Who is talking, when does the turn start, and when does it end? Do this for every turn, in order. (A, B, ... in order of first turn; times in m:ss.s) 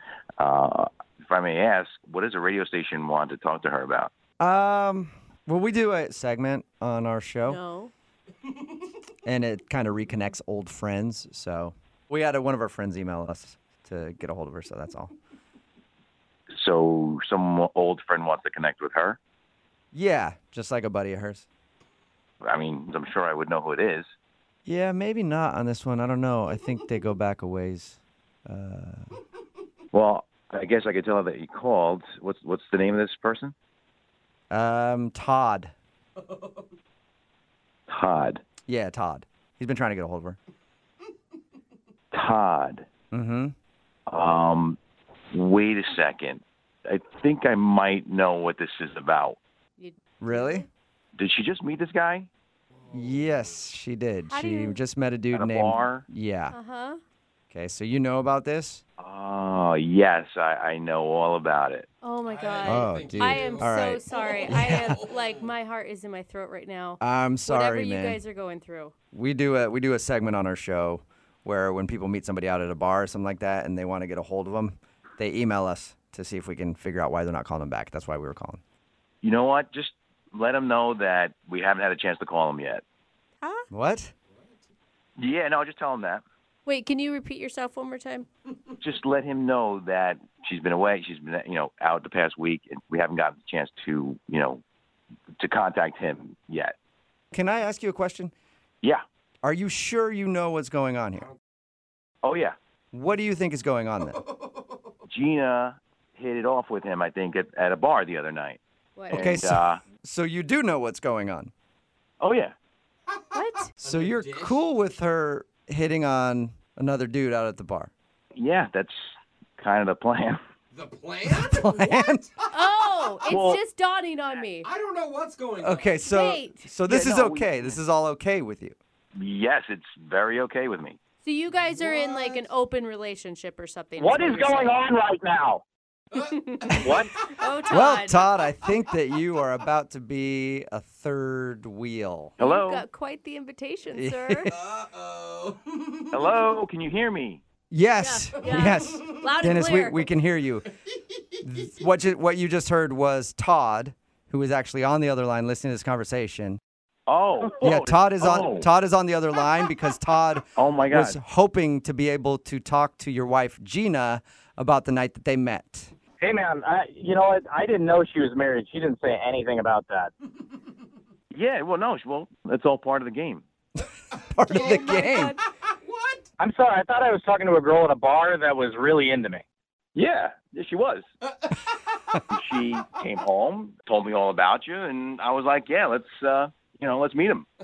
0:00.4-0:04.1 A
0:04.4-0:07.6 B
0:07.5-0:07.9 C
0:09.2-0:15.1 B
0:16.5-0:19.2 A
0:19.9-0:21.5 B
0:22.4-0:24.1 A
0:24.7-0:29.1 B
0:29.9-0:33.5 A
0:34.5-0:35.7 B
0:37.9-0:38.4 A
0:38.7-0:40.4 B
0:42.1-0:42.9 A
0:43.1-0:43.6 B
0:44.1-0:44.8 A
0:45.3-0:49.4 A
0:49.8-0:50.7 C
0:50.2-0:50.6 B
0:51.2-0:52.3 A
0:52.9-0:56.6 B
0:54.3-0:54.8 C
0:55.3-0:56.1 A
0:56.5-0:57.0 C
0:57.5-0:58.8 B
0:59.0-1:01.9 A
1:02.0-1:08.9 C
1:02.3-1:05.3 D
1:02.6-1:05.0 B
1:07.0-1:08.2 B
1:09.1-1:18.6 B
1:19.2-1:22.8 A
1:23.4-1:23.7 C
1:23.7-1:24.1 B
1:25.2-1:26.2 A
1:26.7-1:28.3 C
1:28.8-1:34.6 A
1:35.4-1:36.7 A
1:37.3-1:38.3 B
1:39.4-1:41.3 B
1:42.2-1:42.6 A
1:42.9-1:44.2 B
1:45.1-1:49.8 A
1:49.0-1:49.3 C
1:49.1-1:51.5 B
1:52.2-1:52.5 A
1:53.3-1:53.7 C
1:53.8-1:57.9 B
1:53.8-1:54.6 D
1:58.4-1:59.0 A
1:59.6-2:00.4 A
2:00.7-2:02.3 D
2:01.3-2:02.3 B
2:02.5-2:04.7 C
2:03.3-2:03.6 A
2:04.6-2:06.0 D
2:05.6-2:08.8 B
2:06.0-2:06.7 C
2:06.9-2:07.8 A
2:09.2-2:11.0 A
2:11.2-2:14.8 C
2:11.7-2:12.4 D
2:14.0-2:15.6 E
2:16.2-2:17.0 D
2:16.2-2:16.7 C
2:16.7-2:17.2 E
2:17.2-2:18.3 C
2:17.7-2:22.3 B
2:22.4-2:22.8 A
2:22.4-2:24.5 C
2:24.0-2:24.5 B
2:24.6-2:26.3 D
2:26.1-2:27.4 A
2:27.7-2:30.7 B
2:28.0-2:30.1 C
2:31.4-2:36.6 B
2:37.1-2:38.7 A
2:37.6-2:45.9 B
2:40.6-2:41.2 A
2:46.2-2:50.1 E
2:51.3-2:53.4 A
2:54.2-2:55.3 B
2:54.5-2:55.4 C
2:55.8-2:56.3 D
2:56.4-2:59.4 E
3:00.0-3:01.0 A
3:02.3-3:07.5 A